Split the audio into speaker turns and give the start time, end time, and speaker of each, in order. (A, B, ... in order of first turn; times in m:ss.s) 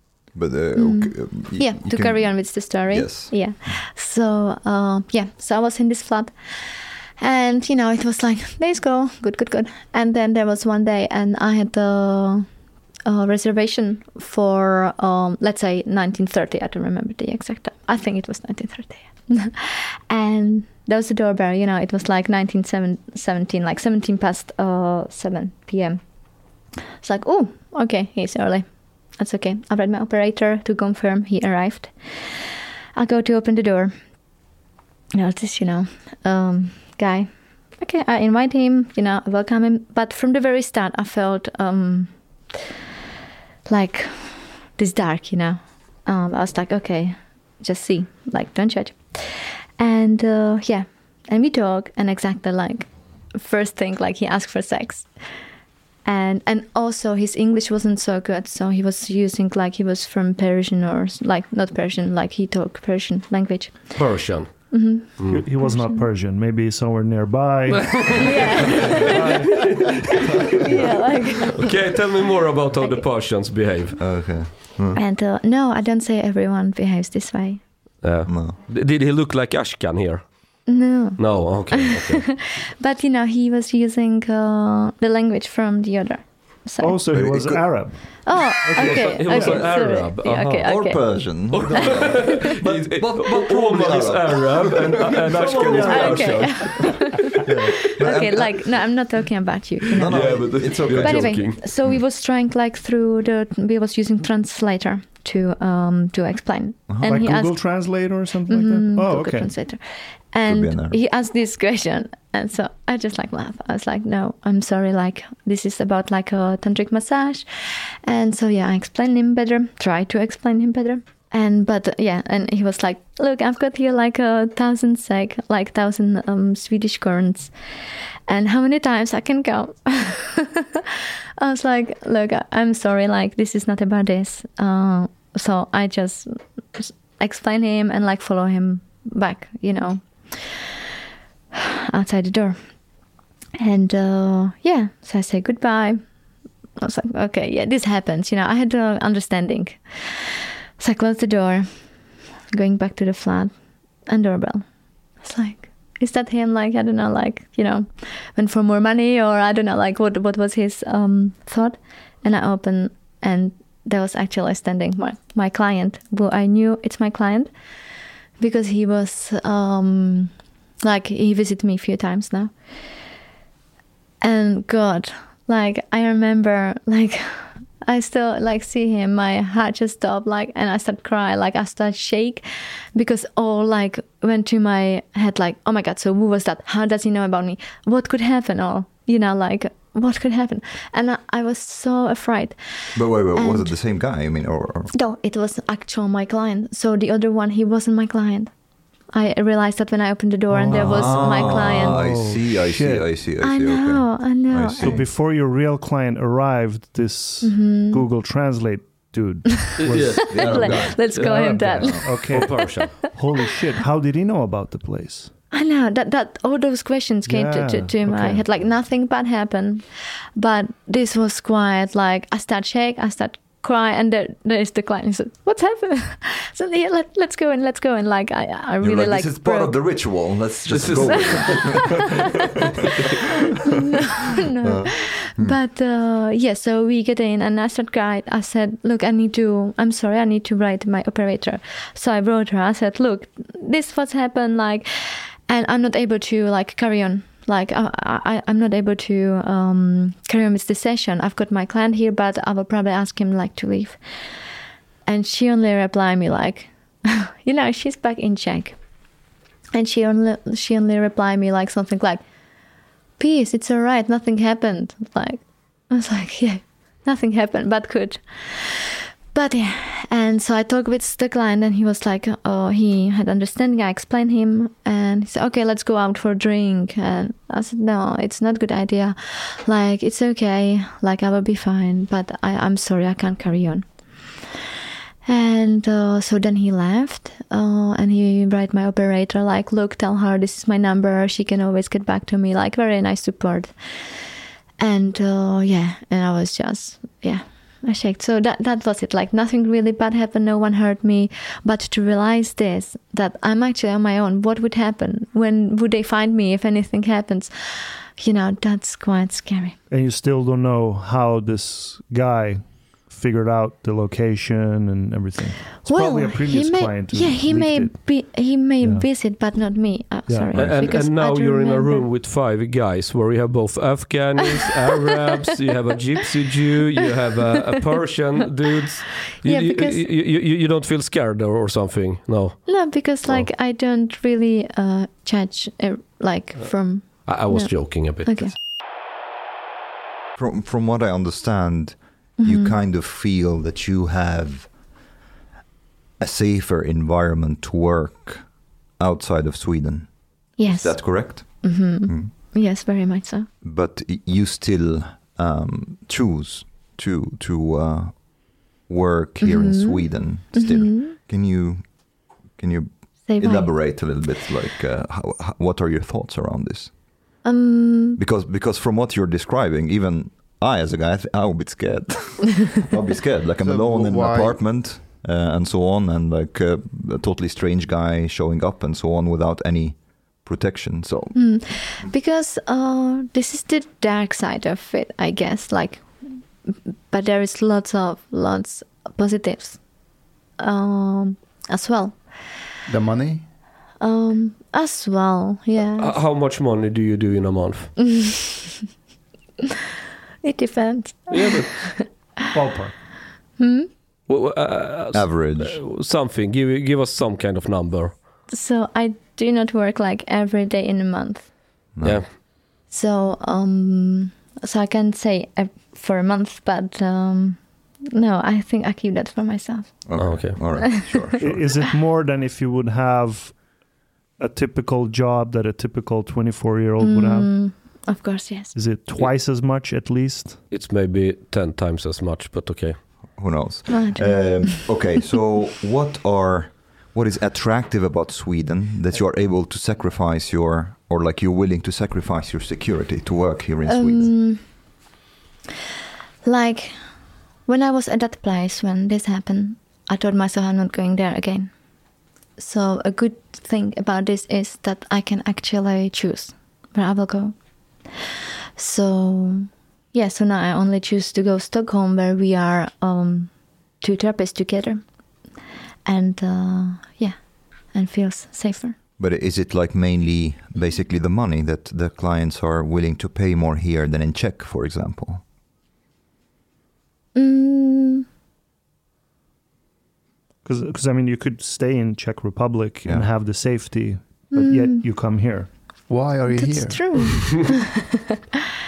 0:00.3-0:03.8 A
0:00.8-0:12.5 B
0:13.0-0:26.0 B
0:27.0-0:34.0 B
0:35.1-0:42.6 B
0:43.7-0:55.3 B
0:56.0-1:06.1 B
1:04.0-1:05.4 C
1:05.3-1:10.9 D
1:07.8-1:10.1 C
1:08.2-1:09.9 B
1:10.6-1:11.7 B
1:11.5-1:14.2 C
1:12.8-1:13.1 B
1:14.0-1:15.0 A
1:14.9-1:17.6 B
1:18.0-1:22.4 C
1:18.2-1:18.6 A
1:20.7-1:27.0 B
1:26.8-1:28.4 D
1:27.1-1:29.2 A
1:28.2-1:32.2 B
1:28.6-1:30.7 C
1:29.3-1:29.7 D
1:30.6-1:39.0 A
1:31.5-1:37.0 C
1:35.2-1:36.9 D
1:35.8-2:10.8 B
1:39.9-1:41.6 C
1:39.9-1:42.0 A
1:46.9-1:47.2 A
1:47.0-1:49.5 D
1:50.4-1:51.0 A
2:11.4-2:20.7 B
2:21.6-2:22.6 B
2:23.6-2:26.0 B
2:26.8-2:31.9 B
2:32.5-2:34.7 B
2:35.2-2:47.5 B
2:48.4-2:52.5 B
2:54.2-3:13.7 B
3:12.9-3:14.9 A
3:14.9-3:18.5 B
3:19.1-3:22.1 B
3:20.5-3:23.1 D
3:20.7-3:25.1 A
3:23.4-3:25.0 B
3:24.8-3:35.3 D
3:27.4-3:28.0 B
3:29.7-3:33.4 B
3:29.8-3:33.1 C
3:30.1-3:32.4 A
3:35.5-3:39.8 B
3:37.2-3:38.5 D
3:40.4-3:50.2 B
3:48.8-3:52.2 A
3:50.7-3:52.0 C
3:50.9-3:51.8 B
3:54.5-4:14.4 B
3:54.6-3:55.6 A
4:15.0-4:18.8 B
4:19.7-4:22.2 B
4:23.2-4:44.3 B
4:45.2-4:54.2 B
4:54.8-5:09.8 B
5:09.9-5:19.1 D
5:15.8-5:22.1 B
5:20.3-5:20.9 D
5:20.5-5:20.9 A
5:20.5-5:33.5 C
5:29.4-5:30.0 B
5:32.6-5:38.5 B
5:36.6-5:38.6 C
5:40.4-5:44.8 A
5:42.4-5:42.8 B
5:46.2-5:52.3 A
5:50.6-5:53.5 B
5:53.6-6:06.9 A
5:59.4-6:01.2 B
6:03.2-6:04.2 B
6:07.4-6:08.2 B
6:08.2-6:22.0 A
6:13.6-6:14.8 E
6:21.3-6:29.8 B
6:30.6-6:32.2 B
6:32.9-6:33.4 E
6:34.0-6:36.2 B
6:36.0-6:38.0 C
6:38.0-6:38.6 B
6:40.4-6:42.2 B
6:41.3-6:41.9 C
6:42.5-6:43.0 D
6:43.6-6:43.9 B
6:44.3-6:48.2 C
6:45.1-6:45.8 A
6:48.5-6:51.5 B
6:51.9-6:52.3 A
6:52.0-6:52.3 C
6:52.9-7:01.7 B
7:00.0-7:01.8 A
7:00.2-7:00.8 C
7:01.4-7:03.7 D
7:04.4-7:07.8 D
7:07.0-7:08.8 B
7:08.7-7:10.6 D
7:10.7-7:13.4 C
7:13.3-7:24.4 A
7:13.9-7:15.1 B
7:23.8-7:24.7 B
7:26.4-7:31.7 B
7:32.6-7:37.6 B
7:38.8-7:45.0 B
7:46.0-7:49.0 B
7:49.2-7:55.4 A
7:57.3-7:58.2 B
8:00.6-8:05.7 D
8:03.0-8:03.3 A
8:04.5-8:05.0 B
8:06.1-8:07.3 E
8:06.5-8:07.8 B